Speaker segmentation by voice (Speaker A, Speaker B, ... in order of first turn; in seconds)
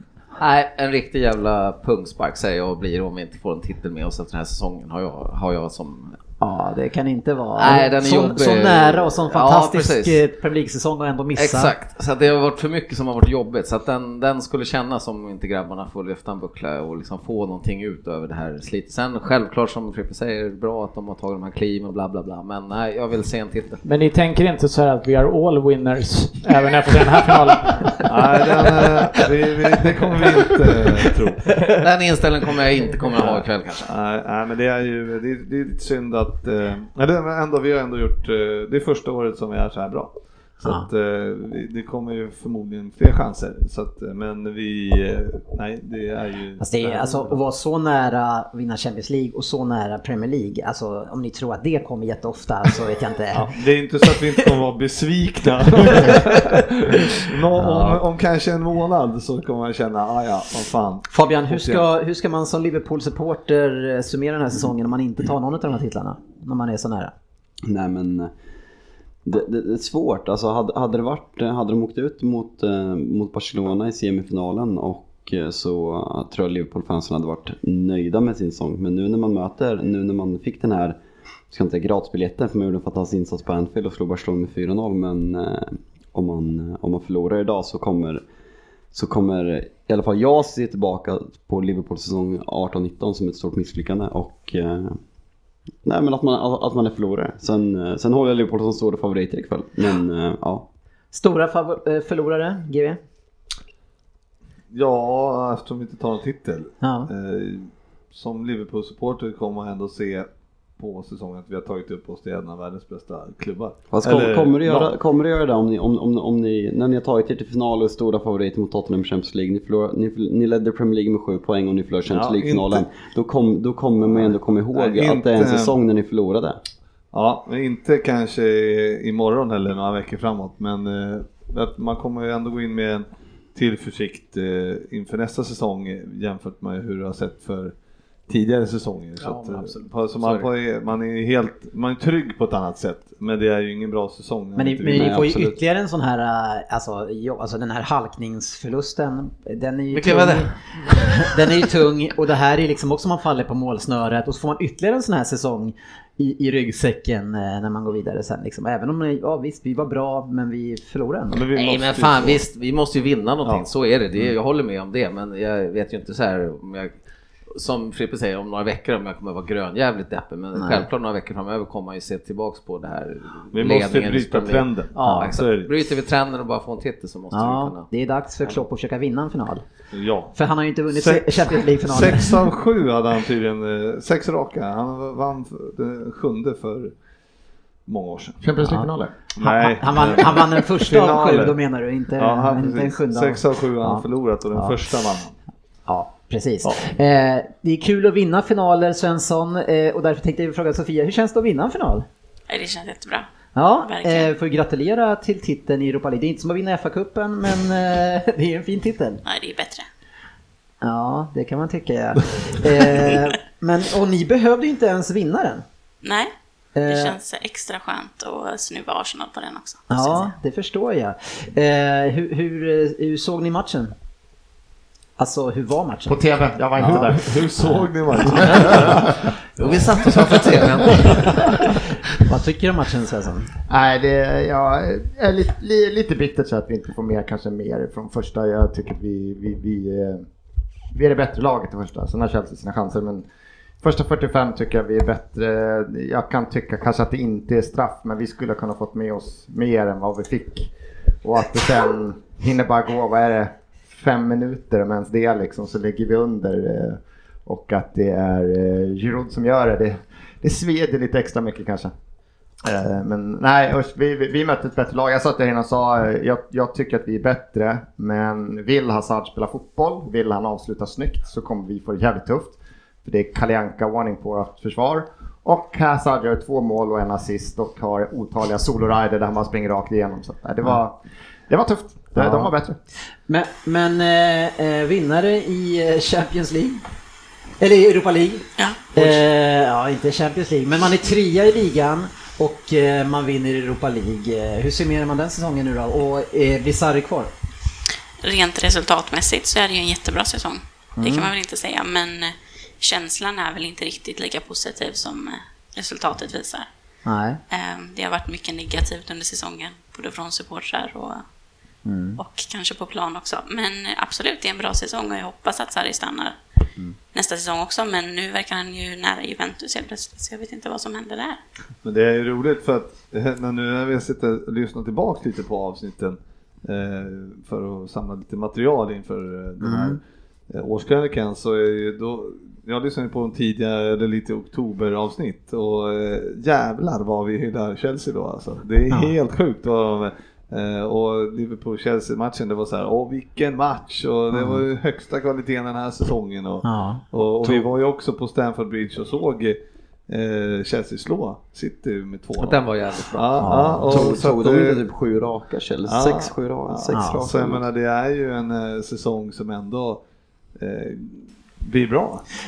Speaker A: 0.4-6.2, 7.6-10.2, 11.4-23.8, 31.8-33.9, 139.2-140.5, 149.9-150.5, 161.6-166.9, 167.6-177.9, 229.6-231.3, 352.4-353.5
Speaker B: 6.4-11.7, 46.6-53.5, 54.1-54.5, 55.9-56.4, 57.5-58.0, 61.1-67.1, 101.1-103.0, 106.8-107.1, 144.6-161.5, 170.6-170.9, 175.0-175.3, 177.3-179.6, 180.3-182.4, 188.6-188.9, 189.4-194.8, 195.9-202.1, 203.5-209.2, 210.8-215.6, 216.8-217.2, 219.9-223.9, 225.2-226.2, 232.3-233.5, 282.2-282.5, 283.3-286.8, 287.6-297.3, 301.0-301.3, 307.1-307.4, 311.9-312.2, 329.6-330.0, 338.9-339.1, 344.3-344.6, 346.6-347.0, 353.4-353.9, 356.9-357.2
Speaker C: 23.8-27.9
Speaker D: 28.1-31.5, 33.1-47.4, 53.3-61.9, 104.7-110.3, 110.8-114.9, 122.1-122.8, 124.7-125.7, 127.1-137.7, 138.3-145.3, 161.3-162.4, 173.5-175.7, 179.9-180.3, 180.9-186.9, 187.9-188.4, 189.4-191.6, 192.2-195.3, 226.8-229.2, 230.1-231.2, 321.8-330.0, 330.5-354.8, 355.9-360.0, 360.6-362.2
Speaker E: 67.7-68.3, 69.3-81.0, 81.5-88.2, 88.9-95.0, 95.8-100.7, 113.9-126.6, 144.9-145.6, 353.8-357.7
Speaker F: 188.4-189.2, 226.1-227.4, 228.4-228.9, 233.7-240.2, 240.9-243.2, 243.8-250.7, 251.2-261.9, 262.6-281.0, 281.5-282.8
Speaker G: 202.5-203.3, 203.8-204.3, 209.2-209.8, 216.0-216.3, 216.9-220.3, 288.6-288.9, 298.2-306.7, 307.5-311.2, 312.2-316.4, 317.1-321.4